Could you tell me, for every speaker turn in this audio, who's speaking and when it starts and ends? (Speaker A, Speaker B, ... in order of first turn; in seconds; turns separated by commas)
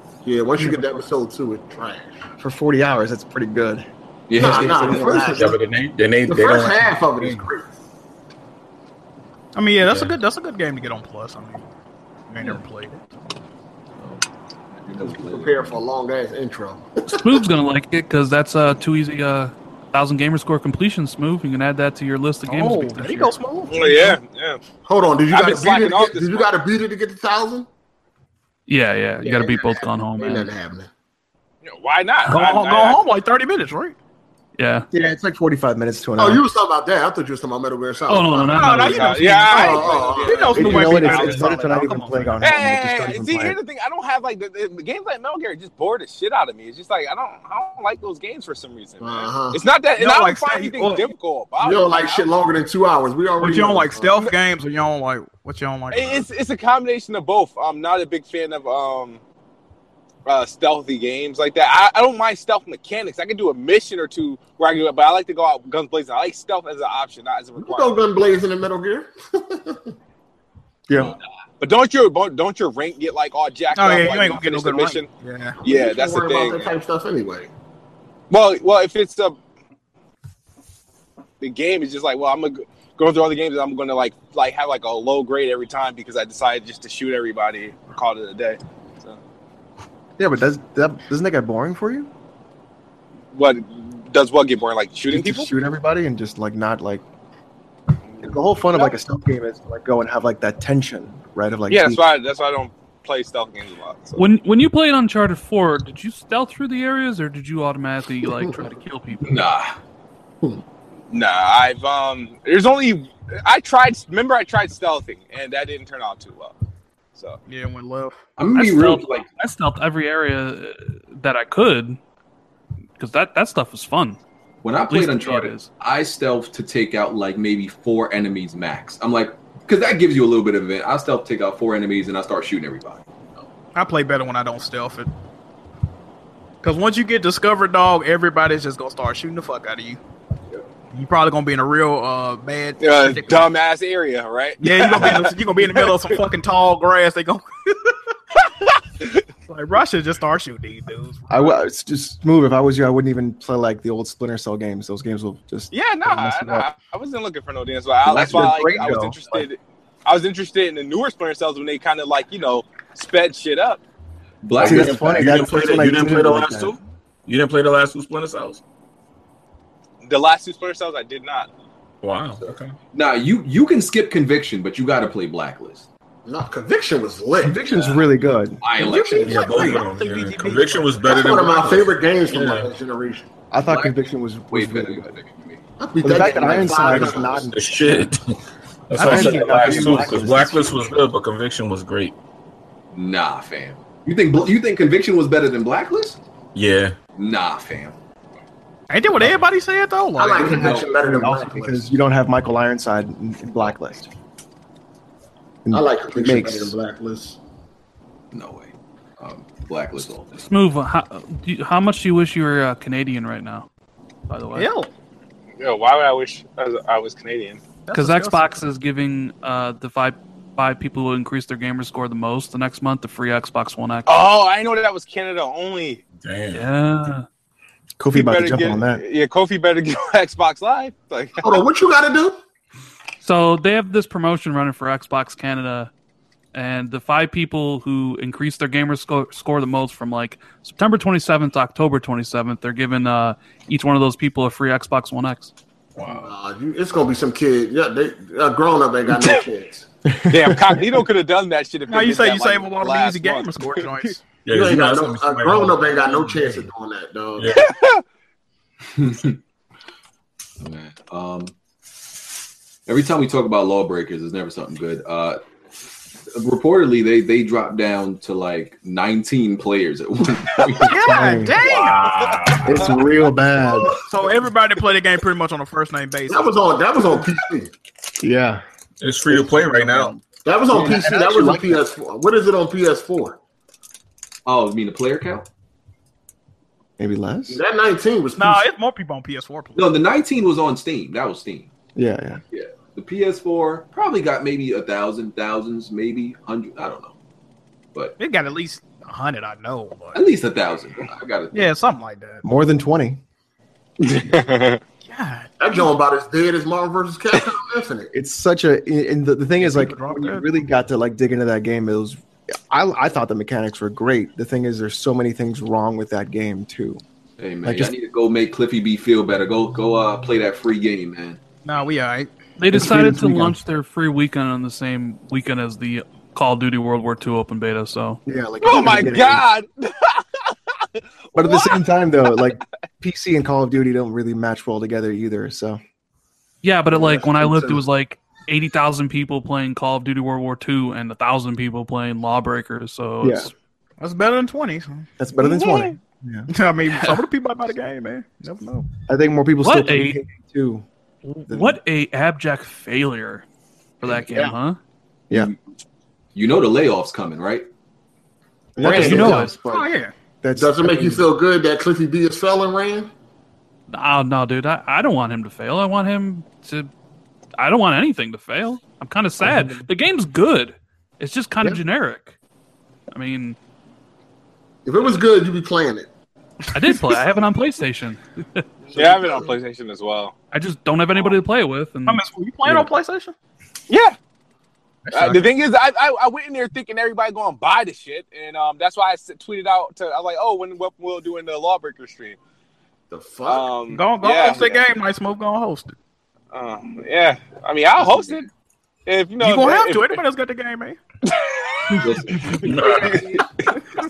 Speaker A: 0.2-2.2, Speaker B: 2.4-5.5, Speaker C: 4.3-5.3, Speaker A: 4.3-5.6, Speaker D: 5.3-7.4, Speaker A: 6.3-7.7, Speaker E: 9.6-11.6, Speaker D: 9.8-10.1, Speaker E: 12.3-13.0, Speaker C: 14.0-15.8, Speaker A: 15.0-17.4, Speaker F: 17.1-23.4, Speaker E: 22.5-24.2, Speaker G: 23.7-24.6, Speaker A: 24.9-27.7, Speaker G: 25.3-26.6, Speaker F: 28.7-30.5, Speaker A: 29.2-30.9, Speaker G: 31.6-33.0, Speaker E: 32.3-34.0, Speaker F: 34.6-34.9, Speaker B: 34.9-36.4, Speaker A: 36.2-38.9, Speaker F: 38.1-39.3, Speaker E: 38.5-42.4, Speaker G: 38.6-41.5, Speaker A: 39.5-41.1, Speaker B: 40.5-43.6, Speaker G: 42.4-52.3, Speaker A: 49.0-49.6, Speaker E: 50.0-51.1, Speaker A: 51.6-54.1, Speaker E: 53.4-56.3, Speaker G: 55.9-59.2, Speaker G: 60.3-68.0, Speaker A: 67.6-69.9, Speaker B: 70.9-71.1, Speaker C: 71.0-71.2, Speaker G: 71.6-75.1, Speaker E: 73.7-75.6, Speaker G: 75.6-76.7, Speaker A: 75.6-77.5, Speaker G: 78.3-79.4, Speaker G: 81.4-89.2, Speaker B: 90.2-92.1, Speaker G: 93.3-95.5, Speaker B: 95.1-97.0, Speaker G: 98.1-99.0, Speaker B: 98.2-102.0, Speaker G: 101.7-104.2, Speaker F: 104.2-109.5, Speaker C: 109.2-109.7, Speaker G: 111.1-116.6, Speaker E: 117.5-118.2, Speaker C: 118.4-119.3, Speaker F: 118.5-122.0, Speaker F: 123.0-124.2, Speaker C: 124.6-133.5, Speaker F: 124.9-125.7, Speaker E: 133.7-135.1, Speaker E: 136.6-140.0, Speaker E: 140.9-143.5, Speaker G: 142.8-146.2, Speaker E: 144.6-148.0, Speaker E: 149.5-151.6, Speaker B: 151.3-156.7, Speaker G: 155.7-163.8, Speaker C: 158.1-158.7, Speaker B: 158.1-159.2, Speaker C: 164.4-165.1, Speaker D: 164.6-168.6, Speaker B: 164.6-166.8, Speaker G: 170.0-171.5, Speaker D: 172.0-172.7, Speaker C: 172.9-175.9, Speaker A: 176.3-177.7, Speaker B: 177.4-178.6, Speaker C: 177.7-178.0, Speaker C: 178.6-179.8, Speaker E: 178.8-181.2, Speaker A: 179.2-179.8, Speaker D: 179.2-182.7, Speaker A: 181.0-183.3, Speaker B: 183.5-185.1, Speaker C: 183.6-183.9, Speaker C: 184.5-185.6, Speaker A: 185.8-187.5, Speaker B: 186.0-188.1, Speaker D: 187.4-188.4, Speaker D: 188.9-192.2, Speaker B: 189.0-190.8, Speaker E: 189.1-189.7, Speaker C: 192.9-196.2, Speaker D: 196.6-197.0, Speaker C: 197.2-198.0, Speaker E: 198.9-200.8, Speaker A: 200.2-201.9, Speaker C: 200.5-200.8, Speaker B: 200.8-204.1, Speaker B: 205.6-206.7, Speaker A: 205.7-207.4, Speaker C: 208.3-210.4, Speaker F: 210.4-213.7, Speaker F: 214.3-214.7, Speaker E: 214.6-214.9, Speaker G: 215.6-217.6, Speaker E: 217.9-218.5, Speaker F: 217.9-224.1, Speaker G: 224.1-226.0, Speaker D: 226.2-226.7, Speaker F: 226.5-227.3, Speaker B: 228.0-229.0, Speaker G: 228.1-231.6, Speaker A: 231.4-232.4, Speaker F: 233.2-235.9, Speaker F: 236.5-245.5, Speaker D: 246.0-246.3, Speaker A: 246.2-249.9, Speaker B: 250.1-251.0, Speaker G: 250.3-254.1, Speaker E: 251.9-254.2, Speaker D: 254.4-256.5, Speaker A: 254.5-257.6, Speaker D: 257.4-257.7, Speaker G: 257.5-258.0, Speaker C: 259.0-259.4, Speaker C: 260.6-261.5, Speaker C: 262.9-265.4, Speaker C: 266.3-271.0, Speaker E: 270.9-272.1, Speaker B: 270.9-271.6, Speaker D: 271.6-272.8, Speaker G: 271.8-272.8, Speaker B: 272.6-273.9, Speaker E: 273.9-276.5, Speaker A: 276.3-277.7, Speaker B: 278.2-278.6, Speaker D: 279.0-280.2, Speaker B: 279.3-280.2, Speaker A: 280.4-283.4, Speaker B: 280.7-281.9, Speaker C: 284.5-285.5, Speaker B: 287.0-287.6, Speaker A: 287.5-288.7, Speaker E: 288.4-289.9, Speaker C: 289.8-291.7, Speaker B: 292.0-292.4, Speaker C: 292.5-297.1, Speaker E: 298.2-300.2, Speaker C: 300.1-301.7, Speaker E: 301.5-302.4, Speaker B: 302.4-303.2, Speaker G: 304.0-304.8, Speaker E: 305.1-305.9, Speaker A: 305.6-308.1, Speaker B: 308.1-317.0, Speaker E: 309.6-310.5, Speaker C: 317.4-321.4, Speaker B: 317.6-317.9, Speaker E: 321.6-322.3, Speaker F: 322.6-328.2, Speaker B: 322.7-323.6, Speaker B: 328.3-329.4, Speaker G: 328.6-330.5, Speaker G: 331.4-331.8, Speaker B: 331.4-335.8, Speaker F: 336.6-343.5, Speaker B: 336.9-337.8, Speaker B: 343.2-343.5, Speaker E: 344.0-345.9, Speaker B: 345.2-346.5, Speaker E: 346.5-348.9, Speaker F: 346.9-347.2, Speaker B: 349.1-350.9, Speaker F: 349.6-350.2, Speaker B: 351.4-351.8, Speaker F: 351.5-353.4, Speaker F: 354.0-354.8, Speaker C: 355.3-355.6, Speaker C: 356.4-357.7, Speaker B: 358.8-359.8, Speaker A: 358.8-359.9, Speaker F: 358.8-359.5, Speaker E: 358.9-360.1, Speaker B: 360.4-361.3, Speaker A: 360.6-363.1, Speaker F: 363.9-366.9, Speaker F: 367.6-372.4, Speaker B: 369.4-369.8, Speaker F: 373.1-373.6, Speaker A: 374.9-376.1, Speaker F: 376.7-378.6, Speaker G: 378.9-380.3, Speaker A: 378.9-379.5, Speaker F: 380.5-382.9, Speaker E: 382.1-383.4, Speaker G: 383.9-384.2, Speaker E: 385.1-385.4, Speaker G: 385.1-392.4, Speaker A: 393.1-393.8, Speaker G: 393.4-394.9, Speaker E: 393.9-395.9, Speaker G: 396.5-398.5, Speaker C: 398.0-398.4, Speaker G: 399.1-400.2, Speaker E: 399.4-401.0, Speaker G: 401.9-403.4, Speaker C: 402.0-403.4, Speaker D: 402.6-403.3